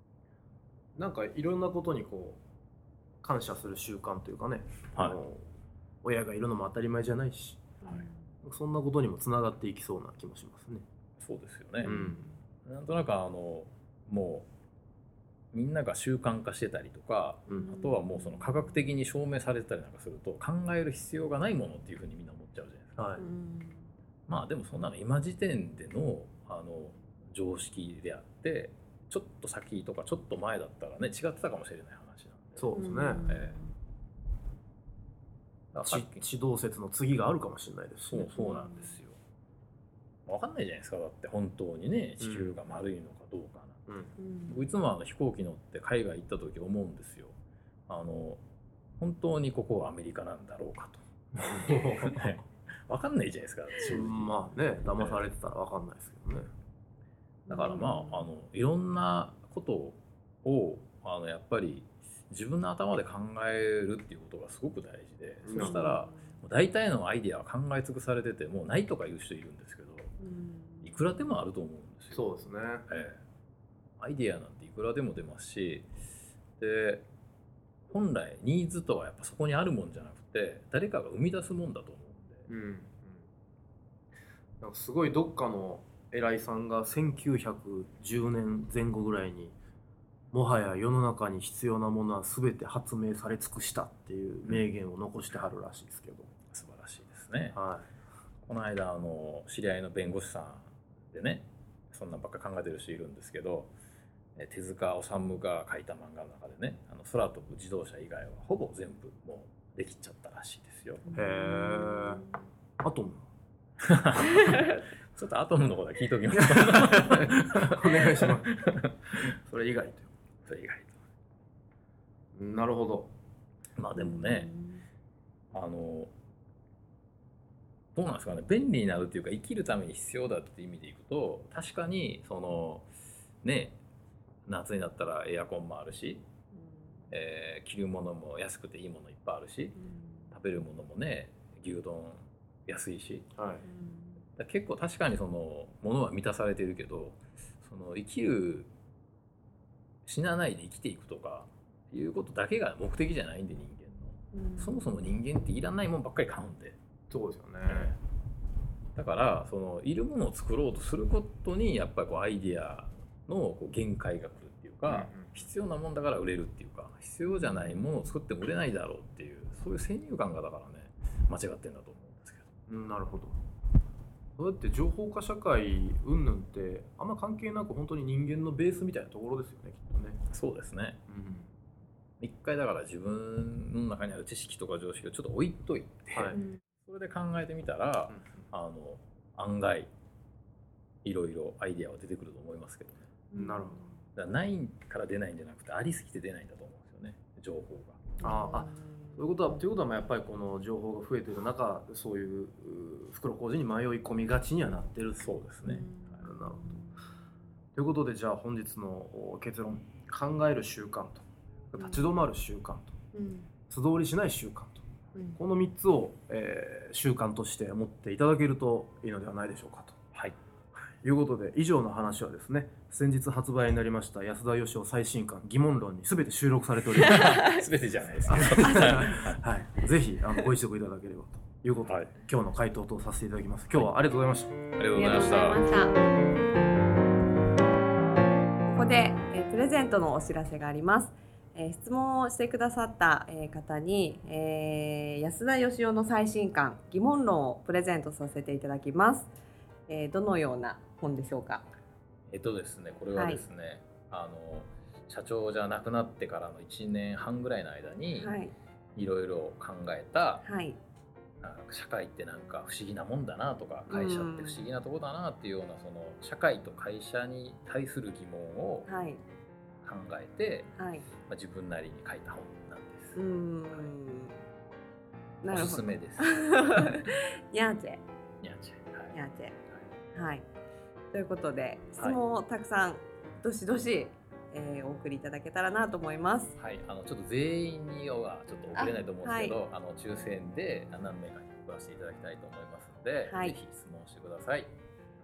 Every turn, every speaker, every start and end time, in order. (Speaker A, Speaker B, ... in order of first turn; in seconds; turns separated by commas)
Speaker A: 0.9-2.4, Speaker A: 3.2-5.5, Speaker B: 5.0-5.2, Speaker A: 6.0-7.8, Speaker C: 7.8-8.2, Speaker A: 8.4-10.8, Speaker B: 11.2-12.0, Speaker A: 11.8-12.3, Speaker C: 11.8-12.2, Speaker B: 12.7-14.5, Speaker B: 15.5-23.1, Speaker A: 17.5-17.7, Speaker C: 17.6-18.8, Speaker A: 23.0-23.2, Speaker C: 23.2-23.9, Speaker B: 24.3-33.6, Speaker A: 32.6-33.3, Speaker C: 32.7-33.7, Speaker B: 35.7-36.2, Speaker A: 35.8-38.4, Speaker B: 38.1-39.2, Speaker C: 38.4-39.0, Speaker B: 40.3-43.8, Speaker A: 42.2-42.6, Speaker A: 43.9-44.1, Speaker C: 44.2-44.7, Speaker B: 44.5-47.4, Speaker B: 47.9-48.4, Speaker B: 49.0-54.3, Speaker A: 51.3-52.3, Speaker A: 53.8-56.5, Speaker C: 57.5-58.3, Speaker B: 57.5-70.1, Speaker A: 65.4-66.0, Speaker C: 65.5-66.3, Speaker C: 70.2-71.2, Speaker B: 70.8-72.3, Speaker A: 72.1-72.9, Speaker B: 72.9-73.2, Speaker B: 74.0-75.9, Speaker B: 76.6-77.1, Speaker B: 77.9-82.5, Speaker A: 82.5-83.3, Speaker A: 84.6-89.6, Speaker A: 90.3-96.3, Speaker B: 96.5-97.6, Speaker A: 97.5-97.9, Speaker B: 98.4-103.7, Speaker B: 104.4-111.0, Speaker C: 111.1-112.3, Speaker A: 111.1-112.2, Speaker A: 112.8-113.3, Speaker B: 113.8-119.2, Speaker C: 114.3-114.8, Speaker A: 116.3-120.1, Speaker B: 120.5-121.0, Speaker A: 122.3-123.1, Speaker B: 123.8-124.5, Speaker C: 124.0-124.8, Speaker B: 125.5-126.1, Speaker B: 128.0-132.9, Speaker B: 133.4-133.8, Speaker B: 134.5-136.3, Speaker C: 136.5-137.1, Speaker B: 137.1-139.8, Speaker C: 139.8-140.3, Speaker B: 140.3-143.3, Speaker A: 143.3-143.7, Speaker C: 143.7-144.3, Speaker B: 144.4-148.7, Speaker B: 150.1-156.8, Speaker C: 154.3-154.9, Speaker A: 157.1-158.0, Speaker B: 157.7-158.0, Speaker B: 159.0-172.5, Speaker A: 164.9-165.5, Speaker A: 172.7-173.4, Speaker A: 174.4-180.2, Speaker B: 180.3-181.0, Speaker A: 181.1-181.5, Speaker B: 182.2-189.9, Speaker A: 186.1-186.4, Speaker C: 186.3-186.6, Speaker A: 188.1-188.5, Speaker B: 191.0-193.1, Speaker C: 193.3-193.9, Speaker A: 193.3-193.9, Speaker B: 194.2-198.2, Speaker C: 198.2-199.2, Speaker A: 198.2-205.7, Speaker B: 205.2-206.3, Speaker C: 205.7-206.9, Speaker A: 206.2-206.7, Speaker A: 207.8-213.0, Speaker C: 211.8-212.1, Speaker C: 213.1-213.5, Speaker A: 213.7-220.0, Speaker C: 215.2-215.4, Speaker A: 221.0-227.2, Speaker B: 227.0-229.4, Speaker C: 227.1-227.6, Speaker A: 228.2-234.6, Speaker B: 231.9-232.1, Speaker B: 234.8-235.7, Speaker C: 234.9-236.0, Speaker C: 238.7-249.3, Speaker C: 249.9-251.7, Speaker B: 252.3-258.4, Speaker C: 253.1-253.4, Speaker C: 258.1-258.5, Speaker B: 259.0-260.4, Speaker C: 260.4-260.8, Speaker B: 261.4-268.9, Speaker C: 263.9-264.6, Speaker C: 268.9-269.2, Speaker B: 269.8-270.7, Speaker C: 270.8-271.1, Speaker B: 271.2-273.2, Speaker C: 273.2-274.4, Speaker C: 275.4-278.0, Speaker B: 275.5-277.0, Speaker B: 278.4-279.2, Speaker C: 279.1-279.6, Speaker C: 280.1-280.4, Speaker C: 281.1-286.5, Speaker B: 286.6-294.7, Speaker C: 288.8-289.6, Speaker C: 293.2-293.6